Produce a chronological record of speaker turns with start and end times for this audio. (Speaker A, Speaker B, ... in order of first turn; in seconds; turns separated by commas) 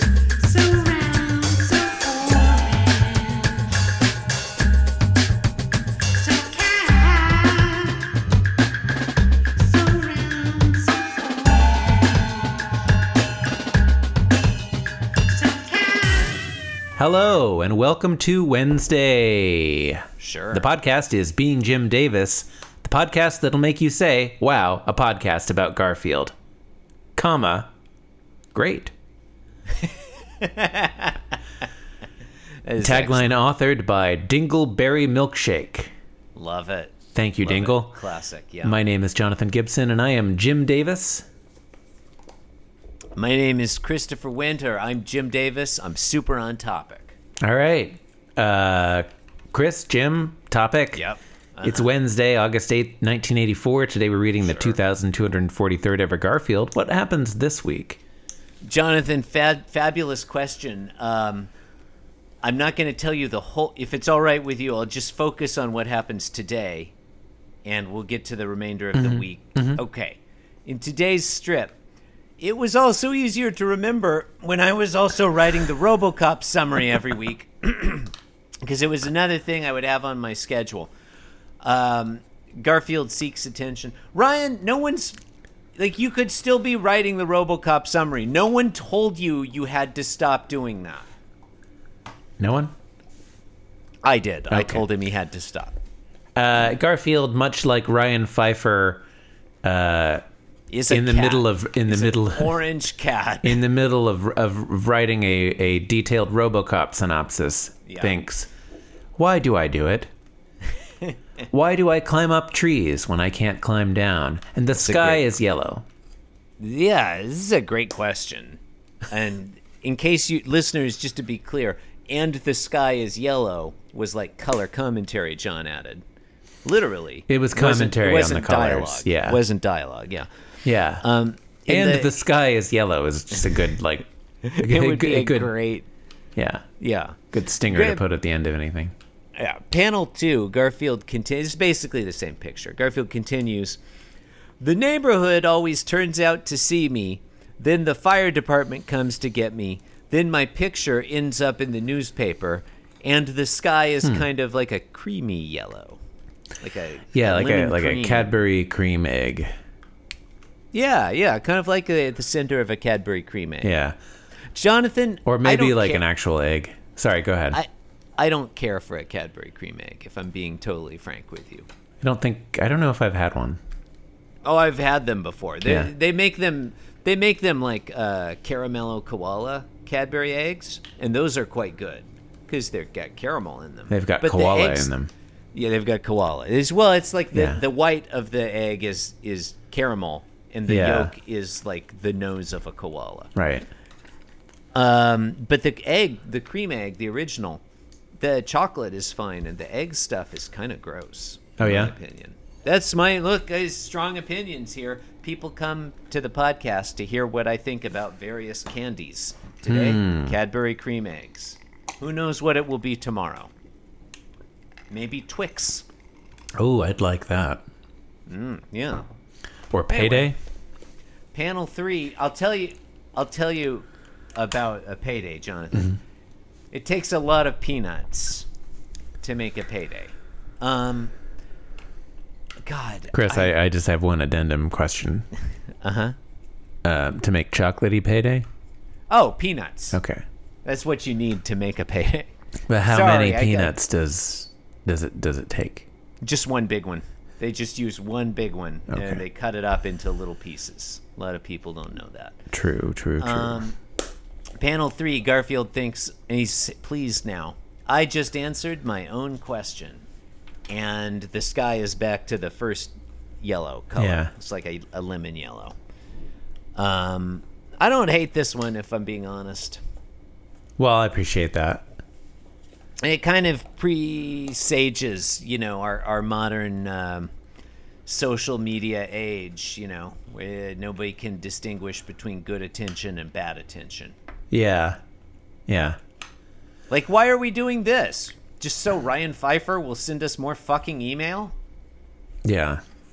Speaker A: 0.4-3.6, Speaker A: 6.2-8.0, Speaker A: 9.6-11.7, Speaker A: 15.4-16.3, Speaker B: 17.0-26.3, Speaker A: 20.2-20.7, Speaker B: 27.2-27.7, Speaker B: 28.5-28.9, Speaker A: 30.4-31.1, Speaker A: 32.6-33.4, Speaker B: 32.8-35.9, Speaker A: 36.4-38.8, Speaker B: 37.1-38.0, Speaker B: 38.6-41.2, Speaker A: 43.1-47.2, Speaker B: 47.4-51.0, Speaker A: 50.9-51.9, Speaker B: 51.6-58.0, Speaker A: 54.4-54.8, Speaker A: 58.6-61.5, Speaker A: 62.4-66.9, Speaker A: 67.7-71.8, Speaker B: 69.0-69.8, Speaker A: 72.4-78.1, Speaker A: 78.6-80.9, Speaker A: 81.6-85.2, Speaker A: 85.8-91.1, Speaker B: 92.4-92.7, Speaker A: 94.0-95.8, Speaker B: 94.5-94.8, Speaker B: 96.4-99.0, Speaker B: 99.6-100.2, Speaker A: 100.7-103.6, Speaker B: 100.9-102.5, Speaker B: 103.4-108.5, Speaker A: 107.9-108.2, Speaker B: 109.2-110.1, Speaker B: 111.5-115.8, Speaker A: 114.8-115.3, Speaker A: 116.6-126.0, Speaker A: 126.6-130.3, Speaker B: 127.3-129.4, Speaker B: 130.7-131.0, Speaker A: 131.0-132.2, Speaker B: 131.7-134.1, Speaker A: 134.4-135.9, Speaker B: 134.6-135.5, Speaker B: 136.4-136.6, Speaker A: 136.8-138.0, Speaker B: 137.3-138.9, Speaker A: 139.4-143.8, Speaker A: 144.6-156.0, Speaker A: 156.6-158.3, Speaker B: 157.1-159.5, Speaker A: 160.7-163.8, Speaker B: 163.6-164.0, Speaker A: 164.5-166.0, Speaker B: 165.3-167.6, Speaker A: 167.5-171.7, Speaker B: 172.0-173.6, Speaker A: 174.4-184.9, Speaker B: 175.7-175.9, Speaker B: 183.9-185.1, Speaker A: 185.5-193.3, Speaker B: 187.3-187.6, Speaker B: 190.7-191.1, Speaker B: 193.3-193.7, Speaker A: 194.7-197.6, Speaker A: 198.2-213.5, Speaker B: 201.6-201.9, Speaker B: 209.7-210.3, Speaker A: 214.9-215.9, Speaker B: 216.6-217.6, Speaker A: 218.3-219.1, Speaker B: 219.7-220.4, Speaker A: 219.9-220.3, Speaker A: 221.3-226.0, Speaker A: 226.7-228.5, Speaker A: 229.2-231.1, Speaker A: 232.6-233.5, Speaker B: 233.1-235.3, Speaker A: 235.8-236.2, Speaker B: 236.8-238.5, Speaker A: 239.1-240.0, Speaker B: 239.9-240.2, Speaker A: 240.7-242.3, Speaker B: 242.7-245.9, Speaker A: 242.8-243.8, Speaker A: 246.2-252.4, Speaker B: 248.9-249.2, Speaker B: 252.5-253.6, Speaker A: 253.2-253.8, Speaker A: 254.6-260.1, Speaker A: 260.7-265.8, Speaker B: 264.0-264.3, Speaker A: 266.8-269.8, Speaker B: 270.8-271.8, Speaker A: 273.0-277.3, Speaker A: 278.1-284.2, Speaker B: 284.5-285.0, Speaker B: 285.7-286.0, Speaker A: 286.9-291.5, Speaker B: 292.4-292.8